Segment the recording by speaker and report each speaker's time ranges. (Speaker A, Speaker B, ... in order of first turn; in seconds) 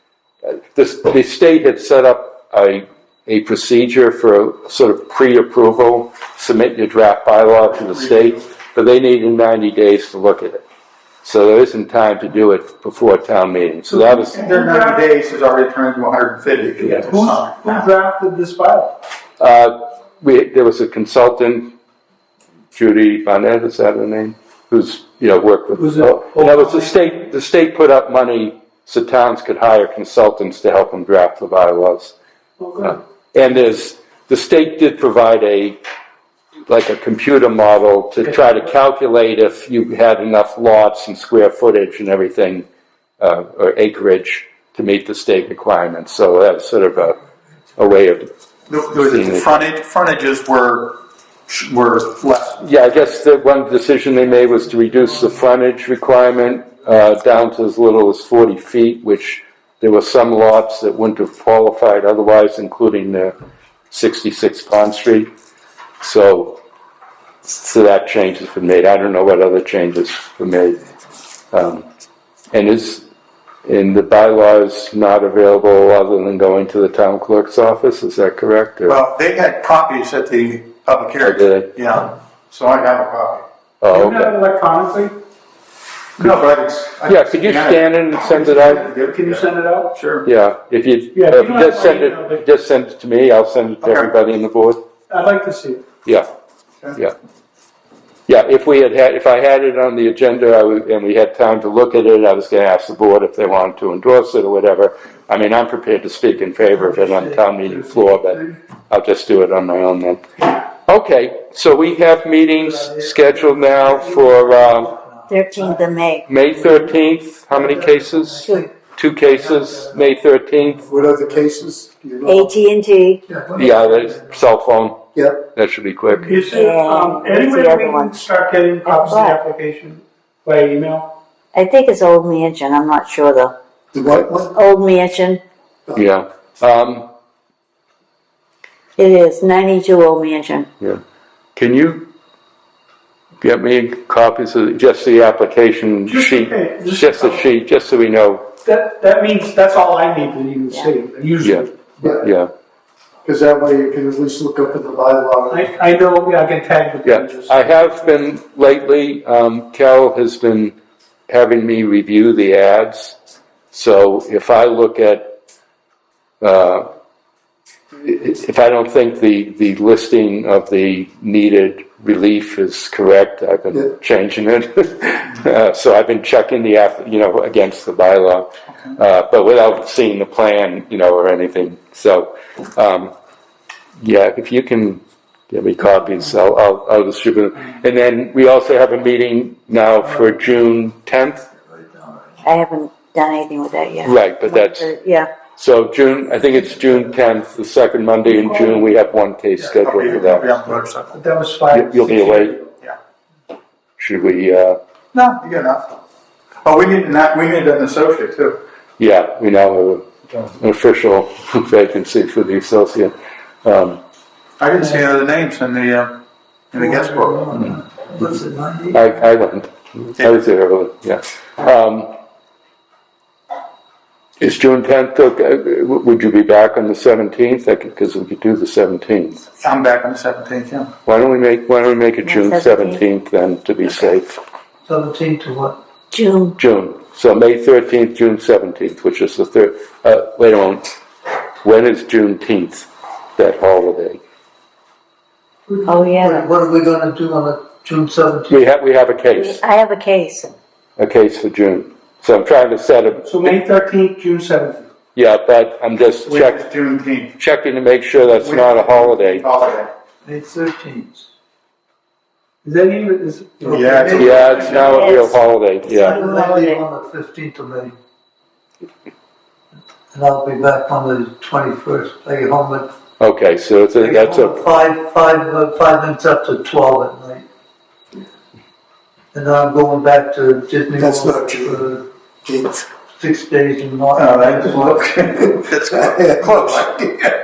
Speaker A: 0.4-10.6, 11.2-14.4, 19.4-21.7, 22.7-32.1, 32.8-35.8, 36.7-42.7, 43.2-47.2, 47.8-48.3, 48.9-49.6, 52.6-63.3, 63.9-65.3, 66.0-66.6, 67.5-70.8, 71.5-71.8, 72.5-73.0, 73.6-79.0, 81.2-81.7, 83.8-84.3, 87.1-88.8, 90.2-94.8, 98.3-114.9, 116.3-120.9, 123.5-126.5, 135.9-137.1, 141.5-142.1, 143.4-148.5, 151.4-152.5, 157.0-160.8, 161.3-163.2, 163.7-165.3, 166.4-166.9, 167.9-183.1, 184.0-191.4, 194.0-194.9, 195.6-200.6, 201.7-202.6, 204.0-204.8, 209.0-214.0, 218.9-222.1, 224.4-229.4, 231.1-234.4, 236.6-240.9, 241.6-244.2, 248.5-249.6, 251.0-253.6, 255.1-256.6, 257.4-259.4, 264.1-266.1, 273.2-274.8
Speaker B: 7.8-8.4, 14.3-17.9, 48.7-52.7, 78.8-83.4, 86.2-90.3, 93.8-94.1, 199.8-201.2, 205.1-205.9, 206.6-208.6, 214.6-216.2, 216.7-217.7, 229.6-230.9, 256.2-257.4, 258.2-259.9, 263.7-265.1, 284.1-287.0
Speaker C: 13.8-15.1, 16.8-18.9, 25.7-27.1, 32.6-33.0, 83.9-85.2, 88.3-90.0, 91.1-92.5, 95.1-95.8, 126.2-131.1, 146.1-147.5, 148.6-151.8, 155.5-158.0, 198.2-198.9, 201.1-202.7, 253.2-254.9, 262.6-264.3
Speaker D: 106.6-108.6, 112.3-121.4, 123.3-124.5, 190.0-190.7, 191.5-192.4, 216.7-219.1, 234.9-235.8, 245.7-248.6, 260.2-261.3, 263.6-265.3, 265.9-267.9, 270.1-272.9, 274.0-277.5, 279.3-282.0, 283.2-285.5
Speaker E: 115.3-116.3, 122.2-123.2, 126.5-128.3, 128.8-129.4, 131.5-133.6, 134.5-135.4, 139.0-140.7, 192.4-195.3, 232.2-233.0, 236.1-236.6, 245.8-246.5, 249.3-250.5, 264.8-265.4, 266.0-266.8
Speaker F: 120.9-122.5, 125.1-125.4, 133.9-134.5, 152.0-152.3, 153.2-155.7, 280.9-282.9, 285.4-287.1